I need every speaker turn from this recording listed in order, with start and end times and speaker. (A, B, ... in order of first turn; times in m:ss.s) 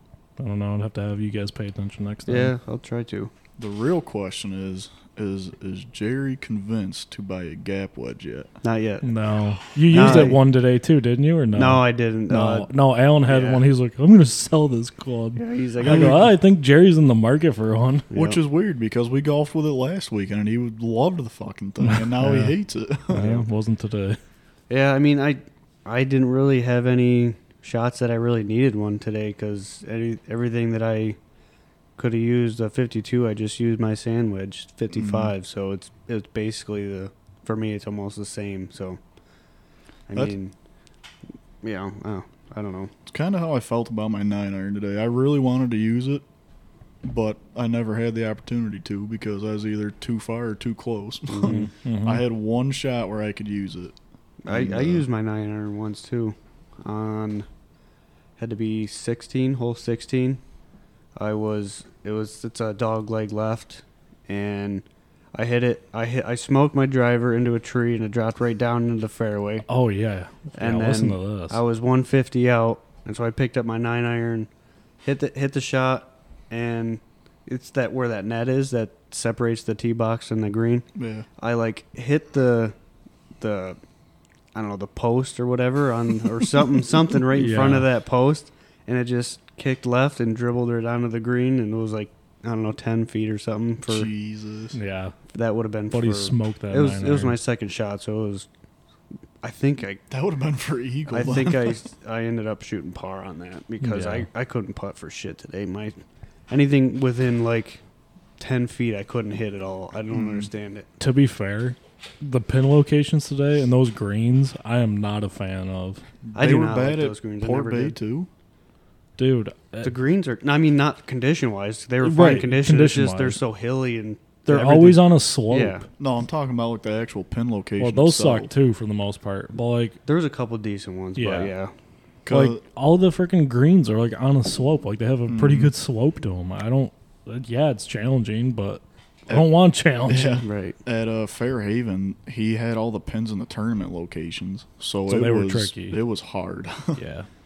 0:00.4-0:02.5 A
0:02.3-0:03.3 B
0:03.6-0:08.5 C
0:08.6-0:09.1 B
0:09.0-0:18.1 A
0:09.9-0:10.4 B
0:10.0-0:10.3 C
0:11.6-0:12.7 B
0:13.3-0:13.6 B
0:15.4-0:16.3 B
0:15.9-0:16.2 C
0:18.1-0:18.4 B
0:18.1-0:23.2 C
0:21.8-0:22.6 A
0:23.1-0:24.2 A
0:23.1-0:23.5 B
0:24.7-0:31.2 B
0:32.0-0:39.0 B
0:34.9-0:35.3 C
0:40.1-0:40.6 B
0:41.6-0:42.9 B
0:43.1-0:46.2 C
0:47.0-0:54.0 C
0:51.3-0:51.7 B
0:51.4-0:52.2 A
0:54.4-0:57.5 B
0:54.5-0:55.1 C
0:58.4-1:00.4 B
1:01.2-1:09.7 B
1:09.7-1:11.6 A
1:10.6-1:14.5 B
1:15.0-1:20.9 B
1:21.0-1:21.3 C
1:21.4-1:22.8 B
1:23.4-1:23.8 B
1:24.6-1:34.1 B
1:27.3-1:27.9 A
1:33.9-1:34.8 C
1:34.7-1:35.2 A
1:35.3-1:38.5 B
1:35.9-1:37.4 A
1:39.4-1:40.0 B
1:40.1-1:41.8 C
1:41.1-1:47.8 B
1:43.8-1:44.3 A
1:48.4-1:50.9 B
1:50.1-1:50.5 C
1:51.0-1:56.0 A
1:56.2-1:58.3 C
1:56.4-1:58.0 B
1:59.2-1:59.9 A
1:59.8-2:05.8 B
2:02.0-2:03.4 A
2:04.5-2:05.8 A
2:06.0-2:08.5 C
2:07.8-2:10.0 A
2:10.1-2:11.7 B
2:11.2-2:11.5 A
2:12.2-2:12.6 C
2:12.3-2:20.4 A
2:15.3-2:15.7 C
2:20.1-2:27.0 C
2:20.4-2:20.8 B
2:25.1-2:26.0 A
2:27.0-2:27.3 A